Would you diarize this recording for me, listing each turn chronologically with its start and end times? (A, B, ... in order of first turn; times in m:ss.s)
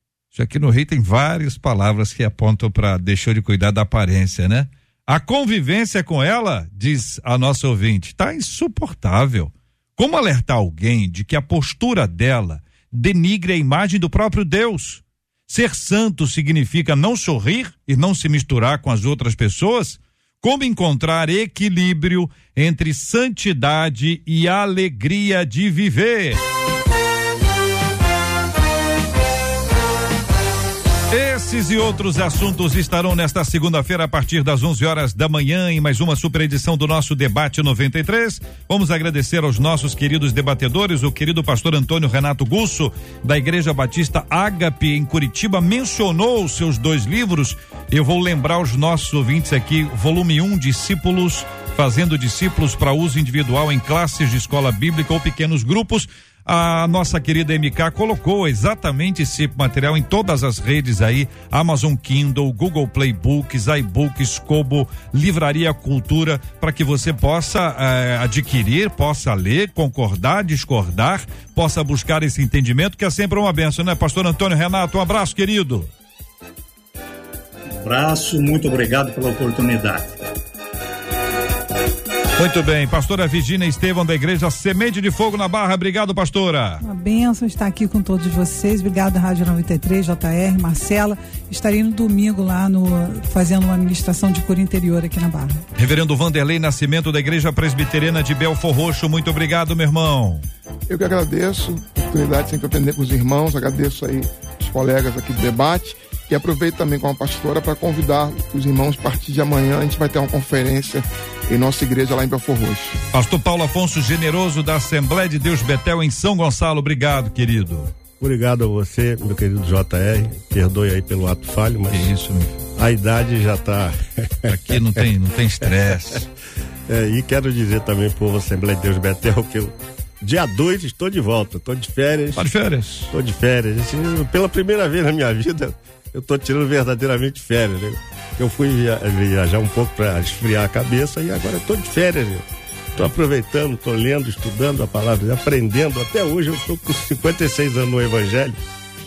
0:00.3-0:26.4 A
0:31.1-1:15.9 A
1:17.7-1:20.2 B
1:22.4-1:26.8 A
1:26.8-1:35.7 C
1:35.8-1:40.5 A
1:40.9-1:53.0 D
1:53.1-1:57.9 A
1:58.2-2:02.1 E
2:01.9-2:02.6 A
2:02.8-2:05.0 E
2:04.5-2:06.3 A
2:06.9-2:12.5 E
2:12.4-2:13.1 A
2:13.1-2:28.6 E